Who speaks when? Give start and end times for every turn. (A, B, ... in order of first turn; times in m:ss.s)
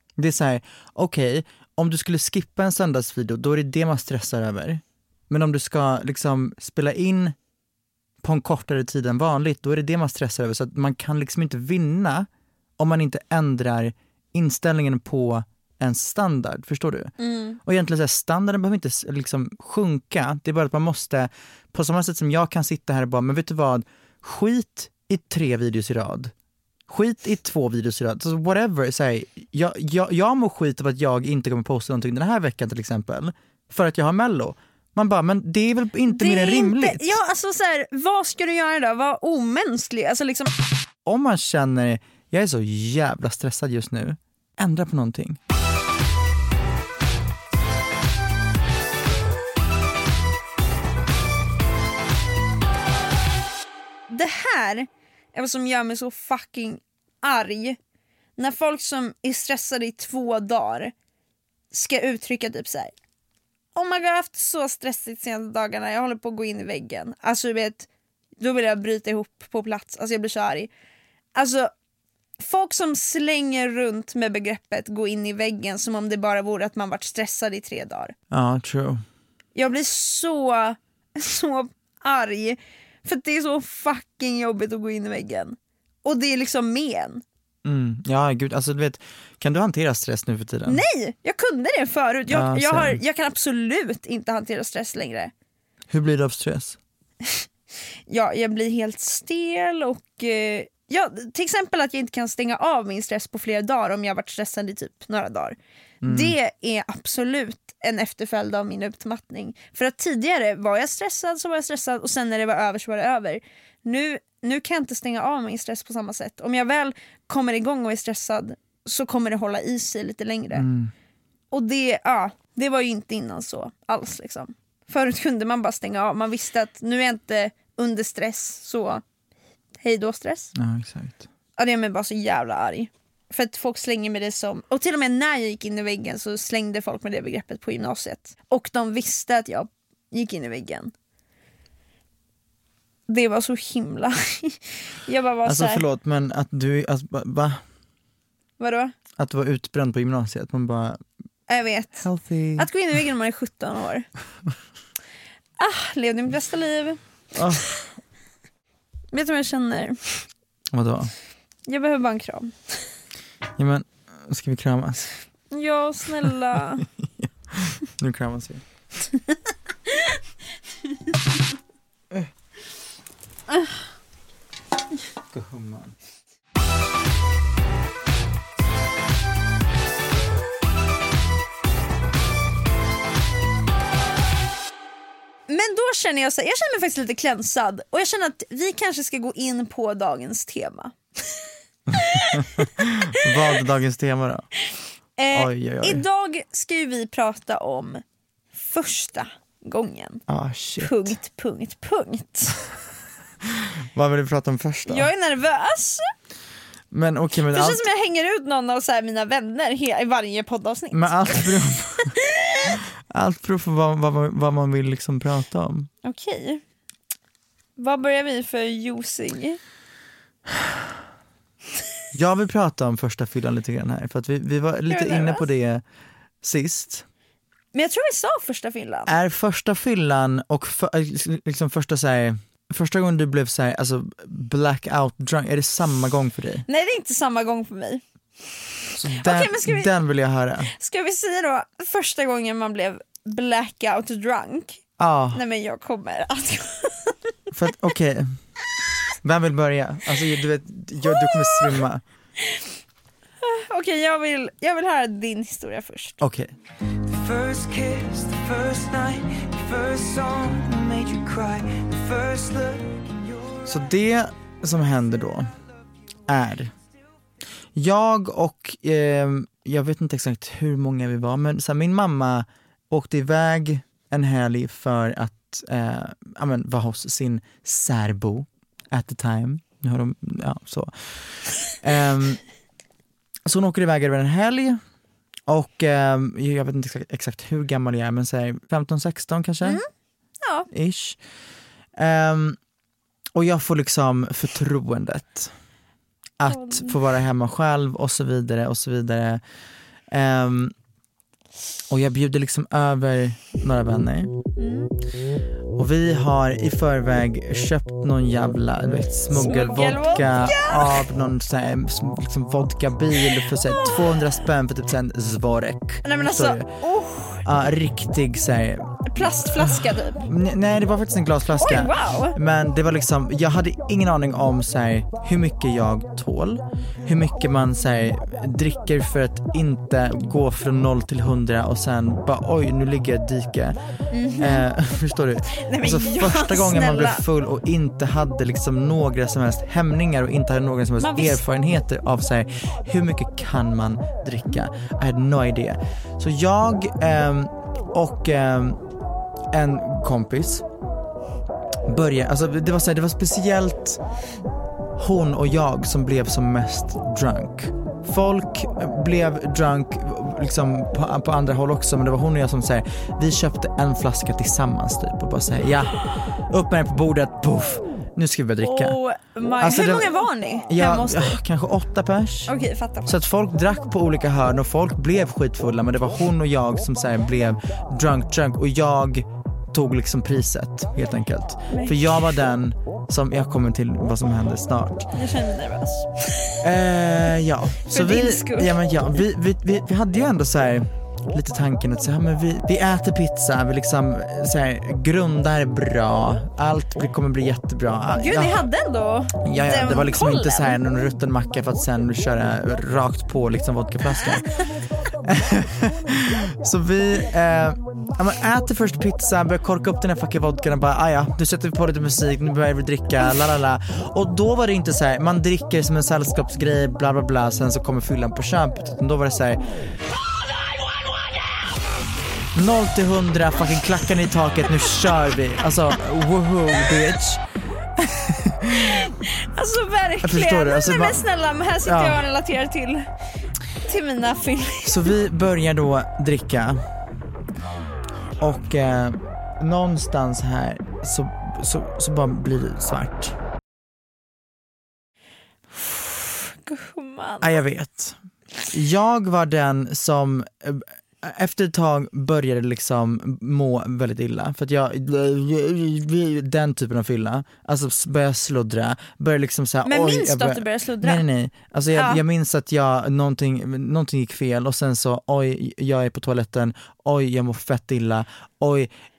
0:00.2-0:07.3 A
0:08.2-0:17.1 A
0:17.2-0:17.6 B
0:17.6-0:26.3 A
0:26.9-0:37.2 A
0:36.1-0:40.5 B
0:41.0-0:45.4 A
0:54.1-0:57.8 B
0:58.4-1:00.9 B
1:01.7-1:02.9 B
1:03.7-1:07.9 B
1:08.4-1:10.7 B
1:11.3-1:11.7 B
1:12.4-1:18.1 B
1:18.3-1:19.0 A
1:19.5-1:27.2 B
1:27.6-1:30.8 A
1:30.7-1:35.3 B
1:32.3-1:33.0 A
1:35.9-1:36.8 A
1:38.1-2:00.7 B
1:46.0-1:46.3 A
2:00.5-2:00.9 A
2:01.5-2:09.0 B
2:09.8-2:10.5 B
2:10.5-2:11.2 A
2:11.6-2:20.9 B
2:23.1-2:25.8 B
2:25.4-2:27.6 A
2:28.6-2:28.9 B
2:29.2-2:31.0 A
2:31.5-2:34.1 B
2:32.0-2:32.7 A
2:35.6-2:37.0 B
2:37.4-2:37.7 A
2:39.1-2:40.2 B
2:40.7-2:41.1 A
2:41.7-2:42.5 B
2:43.6-2:45.1 A
2:45.5-2:46.8 B
2:46.5-2:48.6 A
2:55.3-2:55.9 A
3:05.5-3:11.0 B
3:11.9-3:14.5 A
3:12.1-3:12.6 B
3:15.2-3:18.0 B
3:15.3-3:16.0 A
3:18.5-3:20.2 B
3:20.3-3:21.1 A
3:20.8-3:22.6 B
3:23.9-3:25.1 A
3:24.9-3:26.1 B
3:26.9-3:27.8 A
3:27.5-3:31.5 B
3:30.9-3:32.1 A
3:33.1-3:35.9 A
3:36.0-3:36.6 B
3:37.8-3:39.6 B
3:42.1-3:45.8 A
3:44.9-3:45.5 B
3:46.4-3:47.0 A
3:47.7-3:49.1 B
3:49.0-3:56.6 A
3:56.7-3:58.0 B
3:59.0-4:00.7 A
3:59.2-3:59.9 B
4:00.7-4:04.8 B
4:05.0-4:05.4 A
4:05.3-4:07.1 B
4:07.5-4:08.4 A
4:09.2-4:12.0 A
4:11.1-4:11.6 B
4:13.4-4:16.2 B
4:16.2-4:16.5 A
4:17.0-4:23.6 C
4:23.6-4:25.5 A
4:26.2-4:26.7 A
4:27.7-4:42.4 A
4:43.4-4:44.8 A
4:45.5-4:49.8 A
4:50.4-4:50.7 B
4:50.7-4:51.2 A
4:52.0-4:52.6 A
4:53.3-4:55.5 A
4:56.4-4:59.4 A
4:56.5-4:57.0 B
5:00.1-5:00.7 A
5:01.9-5:04.3 A
5:04.6-5:04.9 B
5:05.8-5:16.7 A
5:09.3-5:11.0 B
5:13.3-5:14.0 B
5:16.0-5:17.4 B
5:17.4-5:33.8 A
5:19.0-5:20.2 B
5:21.6-5:22.4 B
5:34.1-5:34.6 B
5:34.4-5:48.8 A
5:35.6-5:37.2 B
5:41.0-5:41.4 B
5:49.5-5:50.6 A
5:51.9-5:54.0 A
5:55.0-6:09.0 A
6:08.6-6:11.4 B
6:09.6-6:10.1 A
6:10.7-6:12.5 A
6:12.5-6:13.1 B
6:13.0-6:25.1 A
6:21.7-6:22.2 B
6:25.1-6:26.5 B
6:26.6-6:38.7 A
6:27.8-6:28.7 B
6:38.2-6:40.8 B
6:39.4-6:44.5 A
6:45.2-6:59.6 A
7:02.5-7:07.4 A
7:08.0-7:08.9 A
7:09.2-7:13.1 B
7:10.2-7:11.2 A
7:11.8-7:12.2 A
7:13.8-7:15.1 B
7:14.8-7:16.8 A
7:18.4-7:23.4 A
7:26.7-7:27.5 B
7:27.4-7:28.2 A
7:28.7-7:48.9 A
7:39.8-7:41.2 B
7:41.9-7:42.2 B